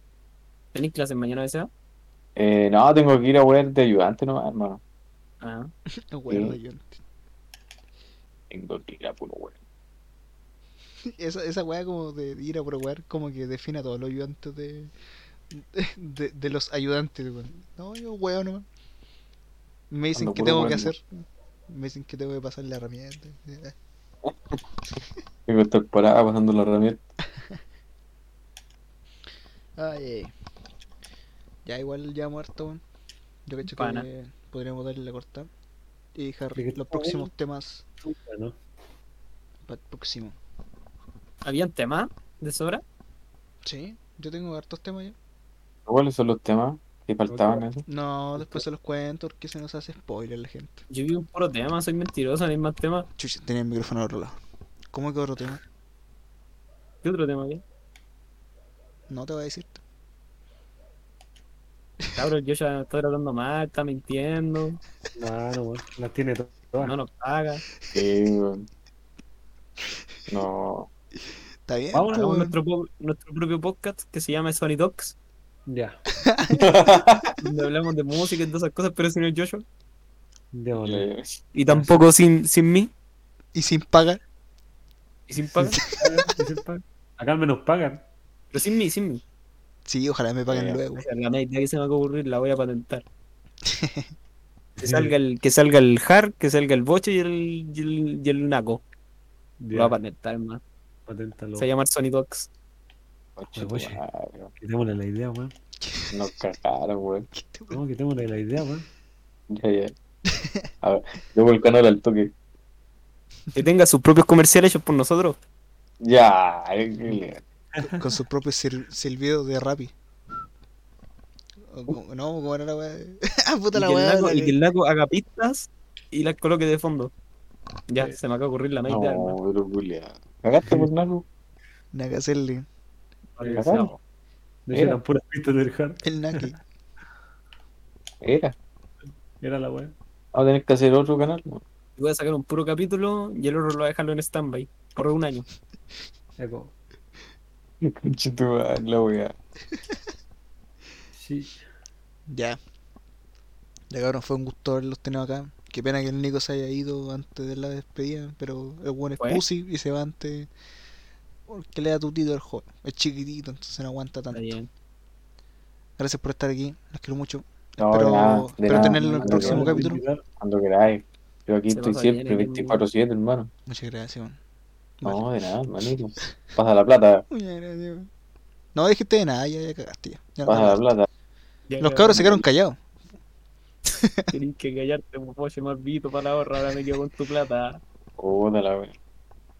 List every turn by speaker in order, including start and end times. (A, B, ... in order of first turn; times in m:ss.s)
0:00.7-0:01.7 A
0:02.4-0:04.8 B
0:05.4-0:05.7 A
0:06.1-0:07.0 C
0:06.3-0:06.6 B
0:08.5-0:09.6 B
0:11.0-0:14.9 C
0:15.5-0:18.6 C
0:19.9-0:23.7 C
0:20.1-0:20.9 B
0:24.3-0:24.6 B
0:25.5-0:27.0 B
0:29.8-0:30.3 C
0:31.6-0:32.8 C
0:33.5-0:35.5 C
0:33.6-0:34.1 A
0:36.1-0:37.8 C
0:36.6-0:37.3 D
0:38.0-0:38.5 D
0:39.6-0:40.4 C
0:41.4-0:42.8 A
0:43.6-0:45.1 C
0:45.9-0:47.8 B
0:47.3-0:47.6 D
0:47.8-0:50.8 C
0:50.9-0:53.1 A
0:53.2-0:54.4 C
0:54.9-0:55.6 C
0:57.0-0:57.6 A
0:59.1-0:59.8 C
1:02.1-1:04.8 A
1:05.2-1:06.9 D
1:06.8-1:07.6 A
1:07.9-1:08.6 B
1:10.3-1:10.9 B
1:11.7-1:12.5 C
1:11.9-1:12.4 D
1:12.1-1:15.2 A
1:15.7-1:16.0 D
1:16.2-1:16.7 C
1:16.5-1:17.4 B
1:17.4-1:19.6 A
1:20.5-1:21.1 D
1:20.8-1:21.4 B
1:21.5-1:22.9 A
1:23.5-1:24.2 C
1:25.3-1:25.8 A
1:25.6-1:26.2 C
1:25.9-1:28.0 D
1:28.5-1:29.2 A
1:29.8-1:31.0 C
1:30.5-1:30.8 B
1:31.0-1:33.0 A
1:33.6-1:34.1 C
1:34.8-1:35.1 D
1:34.8-1:38.8 A
1:39.6-1:39.9 D
1:39.7-1:40.6 A
1:41.1-1:41.7 D
1:41.6-1:42.5 A
1:43.4-1:44.5 B
1:43.6-1:44.0 D
1:44.6-1:45.5 D
1:45.8-1:46.3 C
1:46.1-1:47.3 B
1:47.3-1:47.8 C
1:47.7-1:48.9 D
1:49.5-1:49.9 B
1:50.3-1:50.6 C
1:50.8-1:52.3 B
1:53.5-1:55.4 A
1:56.0-1:57.4 B
1:57.8-1:58.0 D
1:57.8-1:59.9 C
2:01.7-2:04.5 C
2:03.7-2:07.1 A
2:07.9-2:09.4 A
2:08.9-2:11.2 B
2:11.9-2:12.6 C
2:13.4-2:13.7 D
2:13.4-2:14.0 B
2:13.5-2:13.9 A
2:14.7-2:16.5 D
2:14.7-2:15.0 B
2:16.0-2:16.6 C
2:18.2-2:18.6 B
2:19.4-2:19.9 D
2:20.3-2:21.6 B
2:22.0-2:25.5 A
2:26.4-2:26.7 D
2:27.8-2:29.3 B
2:31.1-2:31.6 D
2:32.3-2:32.6 C
2:33.9-2:40.5 C
2:41.5-2:44.5 C
2:44.3-2:44.7 A
2:46.0-2:50.0 C
2:47.8-2:49.8 B
2:48.7-2:50.2 D
2:50.4-2:53.5 B
2:51.7-2:52.8 A
2:53.7-2:54.4 C
2:55.0-2:57.2 B
2:57.3-2:58.1 C
2:58.7-3:00.8 C
3:00.4-3:01.1 B
3:01.7-3:02.4 A
3:01.8-3:02.8 C
3:03.9-3:04.3 C
3:04.3-3:07.8 A
3:08.2-3:08.9 B